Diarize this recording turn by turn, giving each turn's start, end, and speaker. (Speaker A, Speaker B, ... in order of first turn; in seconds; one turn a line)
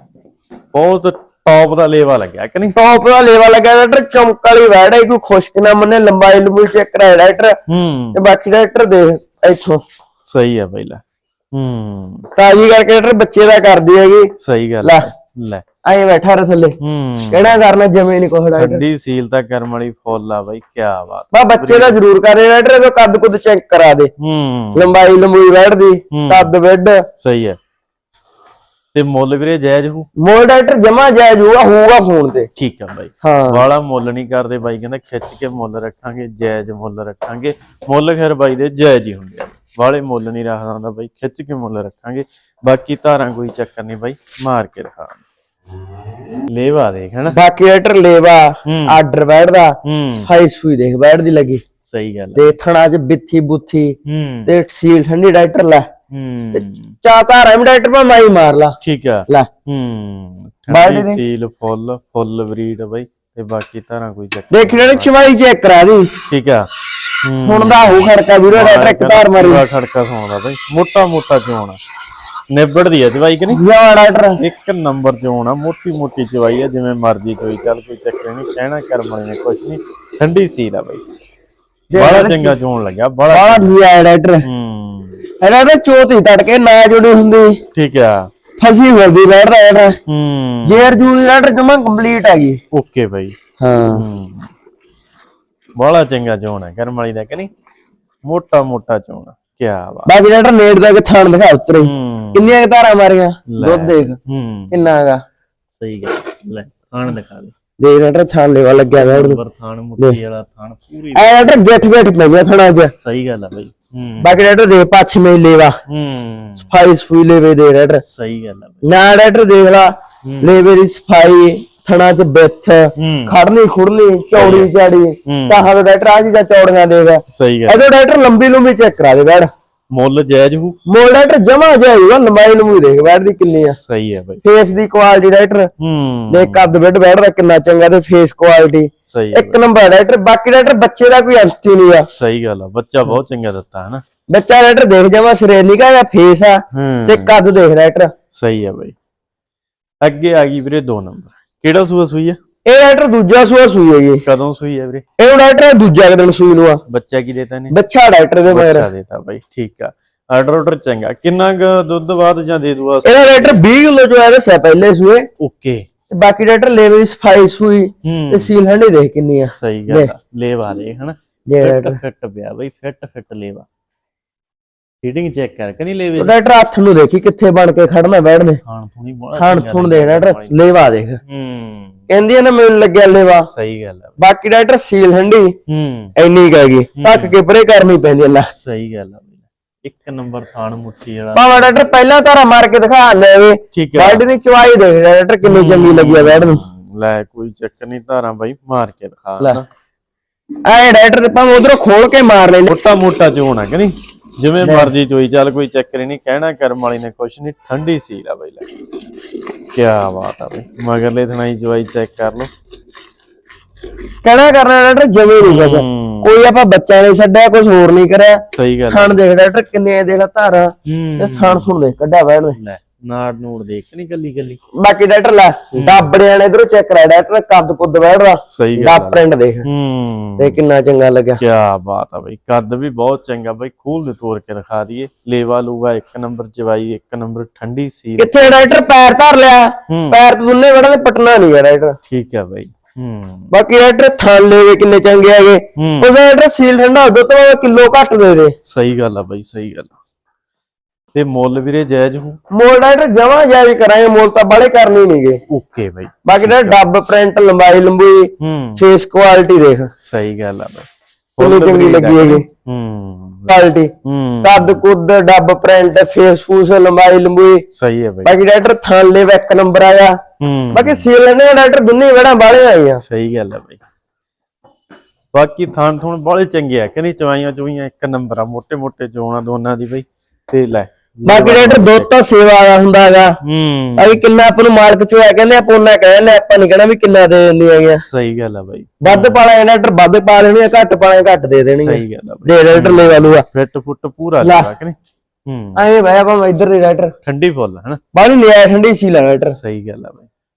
Speaker A: 0.7-2.7
Speaker B: 2.7-7.5
Speaker A: 7.7-8.2
Speaker B: 8.1-9.8
Speaker A: 10.2-12.2
Speaker B: 12.3-14.3
Speaker A: 14.4-15.6
Speaker B: 14.8-15.1
Speaker B: 15.8-16.8
Speaker A: 16.8-17.6
Speaker B: 17.3-18.8
Speaker A: 18.5-22.0
Speaker B: 21.3-24.1
Speaker A: 24.2-24.9
Speaker B: 24.7-27.0
Speaker A: 26.1-26.5
Speaker A: 27.2-27.6
Speaker A: 28.9-30.1
Speaker B: 30.2-32.5
Speaker A: 32.5-45.2
Speaker B: 33.2-33.6
Speaker A: 46.5-47.4
Speaker B: 47.3-51.6
Speaker A: 48.6-49.0
Speaker A: 49.8-50.3
Speaker A: 51.9-52.5
Speaker B: 52.4-54.0
Speaker A: 54.0-54.5
Speaker B: 54.5-55.9
Speaker A: 56.1-57.0
Speaker B: 57.0-58.8
Speaker A: 58.8-65.1
Speaker B: 60.7-61.2
Speaker B: 64.5-66.1
Speaker A: 66.3-66.7
Speaker A: 67.2-71.8
Speaker B: 67.4-69.6
Speaker A: 72.5-73.6
Speaker B: 73.5-74.4
Speaker A: 74.4-81.0
Speaker B: 81.9-82.5
Speaker A: 81.9-83.7
Speaker B: 83.3-84.4
Speaker A: 84.4-85.2
Speaker B: 85.4-87.6
Speaker A: 87.7-88.3
Speaker B: 88.6-90.0
Speaker A: 90.1-91.1
Speaker B: 90.7-92.6
Speaker A: 92.7-93.3
Speaker B: 93.6-94.0
Speaker A: 93.9-94.5
Speaker A: 95.8-97.5
Speaker A: 98.2-100.1
Speaker B: 100.0-104.2
Speaker A: 101.8-102.5
Speaker A: 103.5-104.8
Speaker B: 104.7-105.2
Speaker A: 105.8-107.5
Speaker B: 107.8-109.4
Speaker A: 108.9-111.4
Speaker B: 111.1-112.9
Speaker A: 113.0-114.5
Speaker B: 114.2-115.8
Speaker A: 115.9-116.7
Speaker B: 116.7-118.0
Speaker A: 118.0-118.8
Speaker B: 118.8-129.5
Speaker A: 120.2-120.5
Speaker A: 123.0-123.3
Speaker A: 124.3-124.7
Speaker A: 125.2-125.7
Speaker A: 127.3-127.8
Speaker A: 129.9-130.8
Speaker B: 130.9-133.8
Speaker A: 133.8-134.4
Speaker B: 134.4-135.7
Speaker A: 135.8-136.7
Speaker B: 136.3-142.1
Speaker A: 139.1-139.6
Speaker A: 142.1-144.0
Speaker B: 144.3-148.1
Speaker A: 146.7-147.3
Speaker A: 148.3-148.9
Speaker A: 150.0-152.4
Speaker B: 152.7-154.2
Speaker A: 154.2-155.0
Speaker B: 155.2-156.8
Speaker A: 156.9-157.7
Speaker B: 157.7-158.9
Speaker A: 158.5-163.6
Speaker B: 163.0-165.3
Speaker A: 165.4-165.8
Speaker B: 166.1-170.1
Speaker A: 168.0-168.5
Speaker A: 169.5-173.7
Speaker B: 171.5-172.0
Speaker A: 175.0-176.3
Speaker B: 176.2-178.6
Speaker A: 178.7-180.6
Speaker B: 179.3-181.2
Speaker A: 181.3-182.0
Speaker B: 182.1-183.5
Speaker A: 183.4-184.2
Speaker B: 184.2-185.5
Speaker A: 185.7-186.1
Speaker B: 186.2-188.5
Speaker A: 186.9-187.3
Speaker A: 188.6-191.8
Speaker B: 191.3-196.6
Speaker A: 193.7-194.2
Speaker A: 195.4-199.7
Speaker B: 200.7-202.8
Speaker A: 202.7-208.7
Speaker B: 204.6-204.9
Speaker A: 209.7-212.5
Speaker B: 214.2-222.6
Speaker A: 215.4-216.3
Speaker A: 218.5-219.2
Speaker A: 220.8-221.7
Speaker A: 222.5-224.6
Speaker B: 224.8-229.7
Speaker A: 225.7-226.1
Speaker A: 228.5-230.6
Speaker B: 230.4-231.4
Speaker A: 231.4-238.6
Speaker B: 238.2-241.9
Speaker A: 239.9-240.2
Speaker A: 242.1-243.5
Speaker B: 243.5-248.5
Speaker A: 245.8-246.1
Speaker A: 248.7-249.9
Speaker A: 251.1-252.4
Speaker B: 252.5-255.4
Speaker A: 255.5-256.8
Speaker B: 256.2-259.9
Speaker A: 258.4-258.8
Speaker A: 260.0-264.8
Speaker B: 261.4-262.4
Speaker B: 263.5-263.9
Speaker B: 264.4-267.6
Speaker A: 267.7-268.3
Speaker B: 268.2-270.2
Speaker A: 270.4-271.1
Speaker B: 270.7-273.0
Speaker A: 273.0-273.8
Speaker A: 275.3-282.1
Speaker B: 281.2-283.3
Speaker A: 283.4-284.2
Speaker B: 284.0-288.0
Speaker A: 288.0-289.4
Speaker B: 289.0-293.4
Speaker A: 291.7-295.8
Speaker B: 294.4-294.7
Speaker B: 295.8-297.1
Speaker A: 297.2-298.0
Speaker B: 298.1-299.6
Speaker A: 299.4-300.3